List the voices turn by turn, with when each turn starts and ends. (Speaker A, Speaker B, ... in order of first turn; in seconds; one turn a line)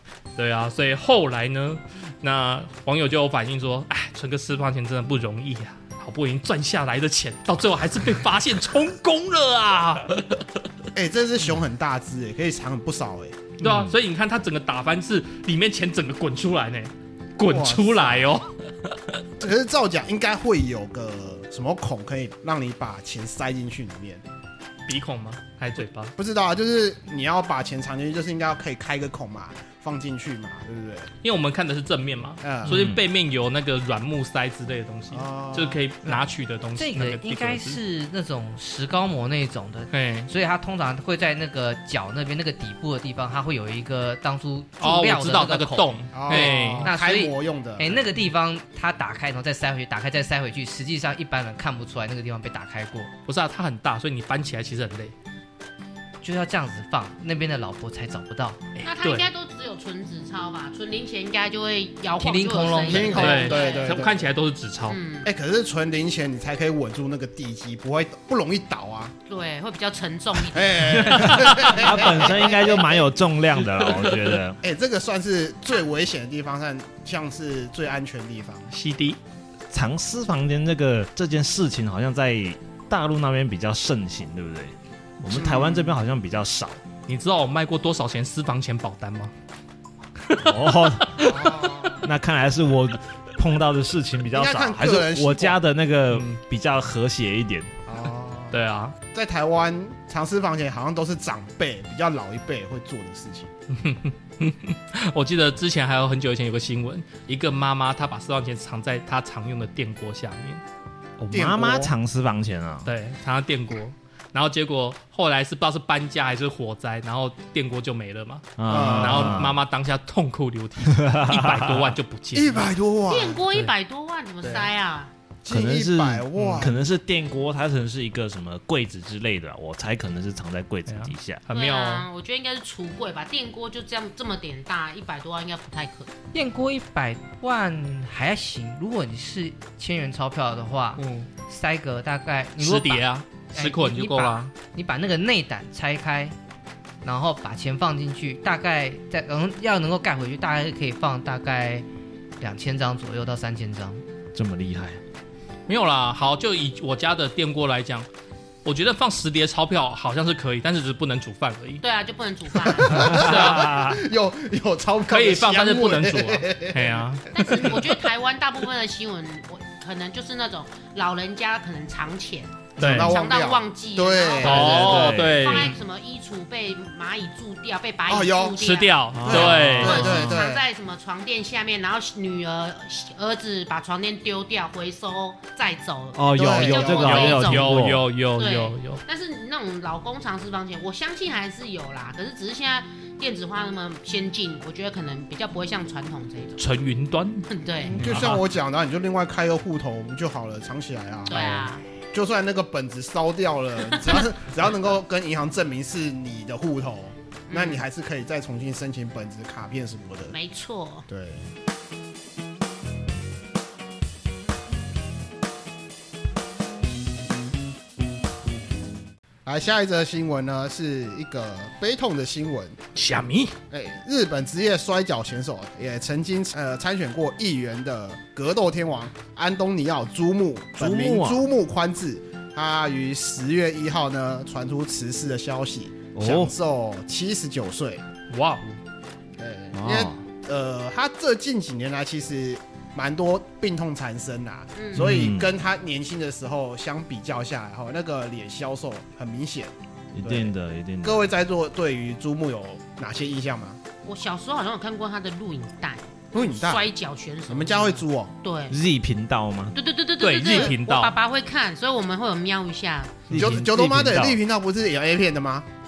Speaker A: 0.4-10.4
Speaker B: 10.9-13.5
Speaker A: 13.6-18.5
Speaker C: 13.6-13.9
Speaker B: 17.5-18.4
Speaker B: 19.4-24.2
Speaker A: 24.9-26.1
Speaker B: 26.2-31.1
Speaker A: 31.2-37.8
Speaker B: 32.4-32.9
Speaker C: 32.7-33.0
Speaker B: 35.1-35.8
Speaker D: 36.8-53.1
Speaker A: 39.9-40.3
Speaker A: 44.8-46.9
Speaker B: 46.1-48.1
Speaker A: 53.3-55.1
Speaker D: 56.2-58.6
Speaker A: 58.8-59.3
Speaker E: 58.8-64.0
Speaker D: 62.2-63.5
Speaker B: 62.9-64.3
Speaker A: 63.1-65.0
Speaker E: 64.9-65.3
Speaker B: 65.2-69.2
Speaker E: 69.3-72.6
Speaker B: 70.5-73.0
Speaker C: 71.1-74.6
Speaker A: 73.7-74.3
Speaker B: 74.6-78.7
Speaker A: 78.7-79.2
Speaker C: 79.7-86.8
Speaker B: 85.3-86.0
Speaker A: 87.1-89.3
Speaker A: 90.2-92.0
Speaker C: 90.4-91.5
Speaker B: 91.2-92.0
Speaker C: 92.0-97.7
Speaker B: 94.3-95.6
Speaker A: 96.1-96.4
Speaker B: 97.9-103.5
Speaker A: 98.5-99.0
Speaker A: 103.7-110.6
Speaker C: 111.2-112.9
Speaker B: 111.3-111.9
Speaker A: 112.8-122.7
Speaker C: 118.6-119.6
Speaker B: 118.7-119.5
Speaker C: 120.8-122.0
Speaker B: 122.3-123.4
Speaker E: 123.1-125.1
Speaker B: 124.4-124.7
Speaker B: 125.4-126.8
Speaker C: 125.5-131.4
Speaker A: 126.4-126.7
Speaker A: 130.9-132.1
Speaker E: 131.5-136.1
Speaker D: 136.3-146.3
Speaker A: 141.0-141.3
Speaker A: 142.6-144.5
Speaker D: 147.0-151.9
Speaker D: 152.4-154.0
Speaker C: 154.3-155.0
Speaker A: 155.7-158.1
Speaker A: 158.7-161.8
Speaker E: 161.8-163.1
Speaker B: 162.6-167.6
Speaker C: 162.9-163.9
Speaker A: 163.0-163.9
Speaker A: 165.1-167.8
Speaker E: 167.3-196.6
Speaker B: 172.8-175.3
Speaker A: 172.8-173.2
Speaker A: 174.4-175.8
Speaker C: 174.9-175.3
Speaker B: 178.1-178.6
Speaker A: 178.6-180.3
Speaker C: 179.1-180.2
Speaker B: 179.2-180.7
Speaker C: 186.2-188.0
Speaker B: 186.3-187.4
Speaker A: 187.2-189.0
Speaker A: 196.6-198.4
Speaker E: 197.5-198.3
Speaker B: 197.9-210.3
Speaker E: 201.3-201.8
Speaker A: 201.3-201.7
Speaker E: 207.5-207.8
Speaker E: 210.3-211.1
Speaker B: 211.1-211.5
Speaker B: 219.4-222.8
Speaker A: 223.0-223.6
Speaker B: 223.7-238.1
Speaker C: 230.8-231.5
Speaker C: 236.2-236.5
Speaker A: 238.3-238.8
Speaker B: 239.4-250.5
Speaker C: 239.7-240.2
Speaker E: 244.8-245.2
Speaker C: 244.9-245.5
Speaker C: 250.1-251.2
Speaker B: 251.0-253.8
Speaker E: 254.0-258.8
Speaker B: 256.3-256.9
Speaker B: 257.5-258.4
Speaker C: 258.7-259.8
Speaker E: 259.8-263.4
Speaker A: 260.2-261.1
Speaker A: 263.3-263.6
Speaker C: 263.3-264.4
Speaker B: 263.3-265.7